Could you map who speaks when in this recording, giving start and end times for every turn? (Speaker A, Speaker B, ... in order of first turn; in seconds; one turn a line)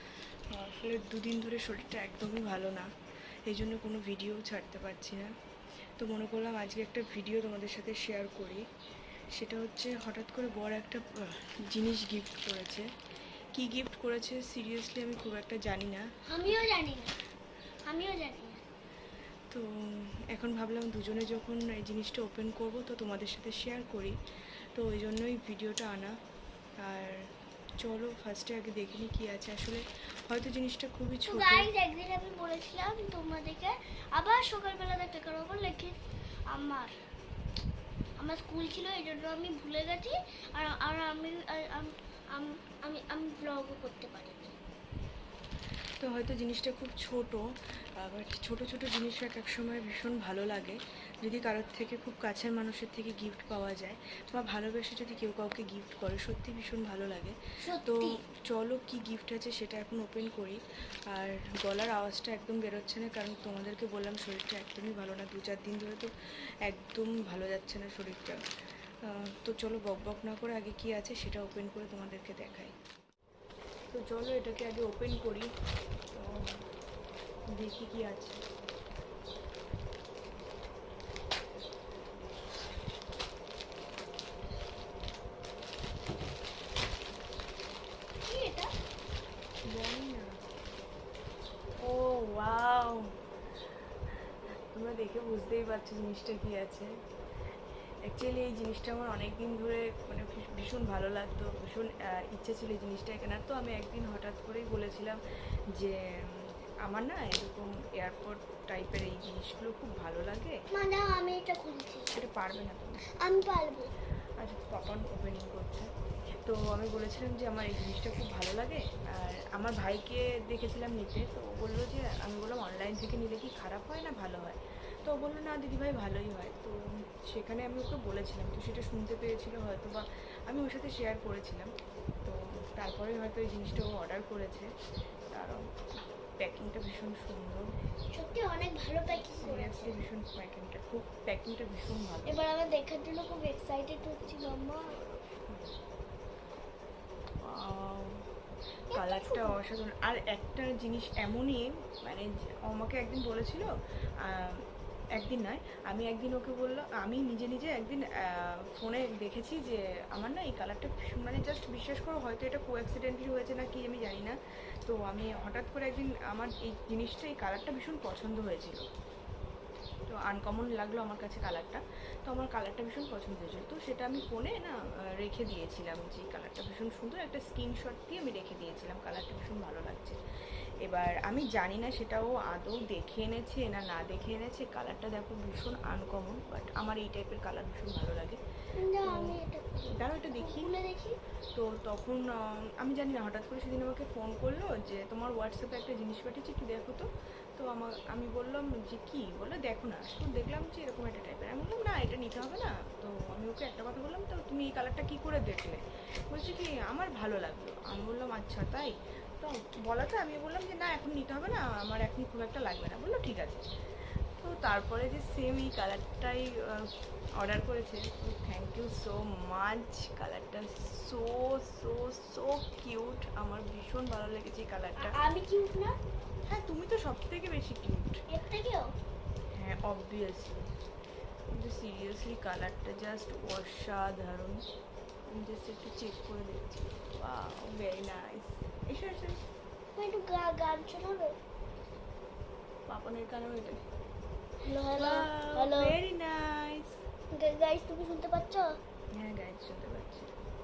Speaker A: 0.5-2.9
Speaker A: 3.5-5.3
Speaker A: 6.0-8.7
Speaker A: 9.4-12.9
Speaker A: 13.6-16.1
Speaker B: 16.3-17.1
Speaker B: 17.9-18.6
Speaker A: 19.5-24.2
Speaker A: 24.8-26.2
Speaker A: 26.8-27.2
Speaker A: 27.8-31.7
Speaker B: 31.3-36.0
Speaker B: 36.5-36.9
Speaker B: 38.2-44.5
Speaker A: 46.0-47.5
Speaker A: 48.0-60.6
Speaker B: 57.6-58.2
Speaker A: 61.1-66.1
Speaker A: 66.7-68.4
Speaker A: 69.1-72.7
Speaker A: 73.9-75.5
Speaker A: 76.1-76.4
Speaker A: 77.6-78.4
Speaker B: 88.3-88.7
Speaker A: 89.7-90.4
Speaker A: 91.8-93.1
Speaker A: 94.8-96.9
Speaker A: 98.1-105.2
Speaker A: 105.8-110.6
Speaker B: 110.7-112.2
Speaker A: 112.1-113.0
Speaker B: 113.2-113.9
Speaker A: 114.4-115.9
Speaker A: 116.5-126.8
Speaker A: 127.3-131.7
Speaker A: 132.2-134.7
Speaker A: 135.3-135.6
Speaker A: 136.4-137.7
Speaker B: 138.1-140.0
Speaker A: 139.4-142.3
Speaker B: 142.2-144.9
Speaker A: 144.6-145.7
Speaker A: 147.4-148.2
Speaker B: 148.9-149.6
Speaker A: 148.9-153.7
Speaker A: 154.2-154.6
Speaker A: 155.2-168.9
Speaker A: 170.1-180.2
Speaker A: 180.9-188.4
Speaker B: 188.8-191.2
Speaker A: 189.1-189.4
Speaker A: 189.9-190.7
Speaker A: 191.6-213.6
Speaker A: 214.4-225.2
Speaker B: 225.0-226.0
Speaker A: 226.5-228.2
Speaker B: 228.3-228.9
Speaker A: 229.6-230.7
Speaker A: 231.5-234.6
Speaker A: 235.3-239.4
Speaker B: 240.0-241.4
Speaker A: 242.9-243.8
Speaker B: 244.6-246.0
Speaker A: 244.9-247.0
Speaker B: 247.3-248.7
Speaker A: 249.1-250.3